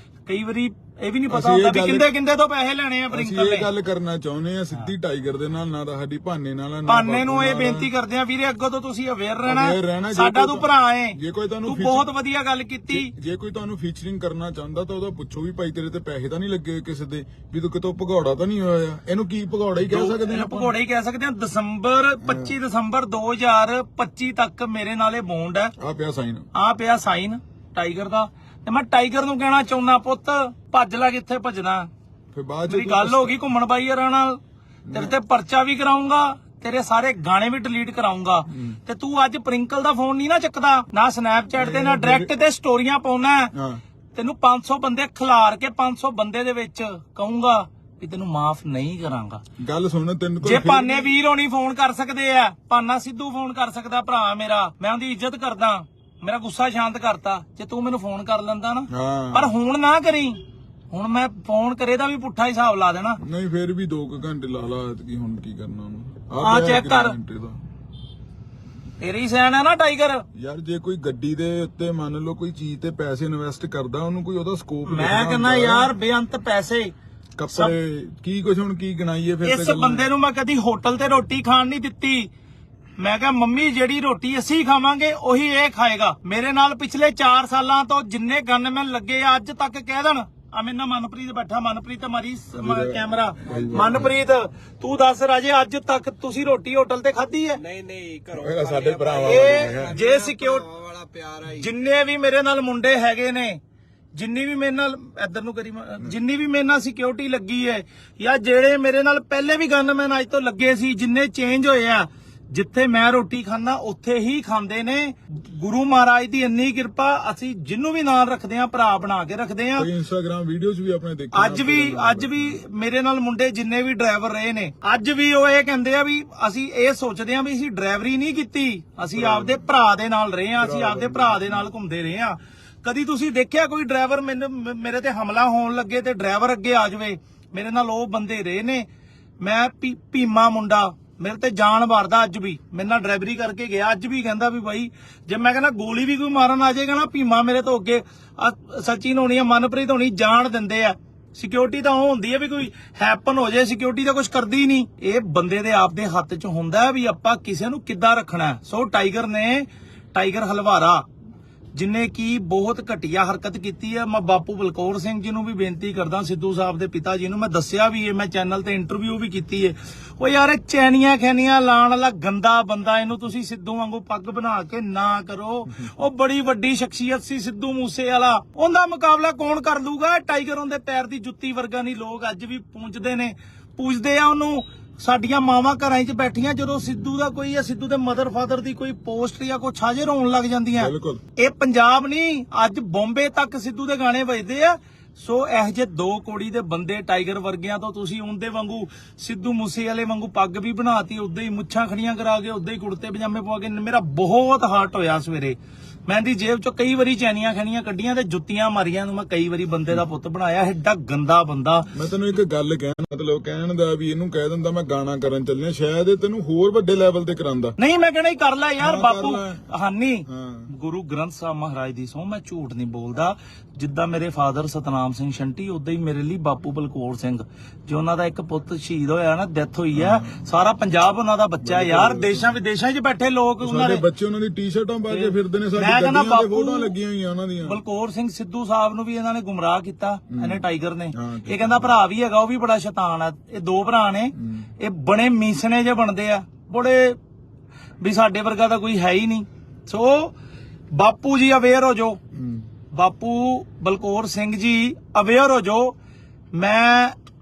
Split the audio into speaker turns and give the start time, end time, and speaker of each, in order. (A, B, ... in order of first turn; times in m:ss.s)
0:00.2-0:03.7 A
0:01.3-0:02.1 B
0:03.1-0:07.9 B
0:06.9-0:13.1 A
0:09.4-0:12.0 B
0:12.9-0:20.7 B
0:19.8-0:25.7 A
0:22.2-0:22.5 B
0:25.8-0:26.5 B
0:26.5-0:31.9 A
0:32.3-0:33.4 B
0:32.7-0:34.4 A
0:34.9-0:35.1 B
0:34.9-0:43.5 A
0:38.5-0:38.8 B
0:41.6-0:42.3 B
0:43.5-0:43.8 B
0:44.1-0:49.4 A
0:49.6-0:51.1 B
0:50.4-1:00.4 A
0:58.9-0:59.5 B
1:00.9-1:03.2 A
1:03.2-1:07.6 B
1:06.4-1:07.2 A
1:09.0-1:10.2 A
1:10.3-1:15.9 B
1:14.8-1:16.9 A
1:17.4-1:20.1 B
1:19.4-1:22.3 A
1:23.0-1:37.6 A
1:32.5-1:34.2 B
1:37.6-1:41.7 C
1:38.3-1:40.0 B
1:39.2-1:40.7 A
1:41.4-1:43.6 A
1:44.1-1:59.9 A
1:59.8-2:02.6 B
2:01.3-2:18.9 A
2:09.1-2:09.6 B
2:10.6-2:11.6 B
2:19.4-2:41.0 A
2:41.7-3:31.9 A
3:10.7-3:11.2 B
3:31.9-3:37.8 B
3:37.8-3:54.0 A
3:38.8-3:39.6 B
3:40.3-3:40.7 B
3:49.9-3:50.4 B
3:51.6-3:52.6 B
3:53.6-3:57.8 B
3:55.1-3:57.0 A
3:57.6-4:07.2 A
4:00.3-4:01.9 B
4:04.4-4:04.7 B
4:08.0-4:10.4 A
4:10.9-4:12.2 A
4:12.3-4:12.7 B
4:12.9-4:15.9 A
4:16.5-4:17.1 A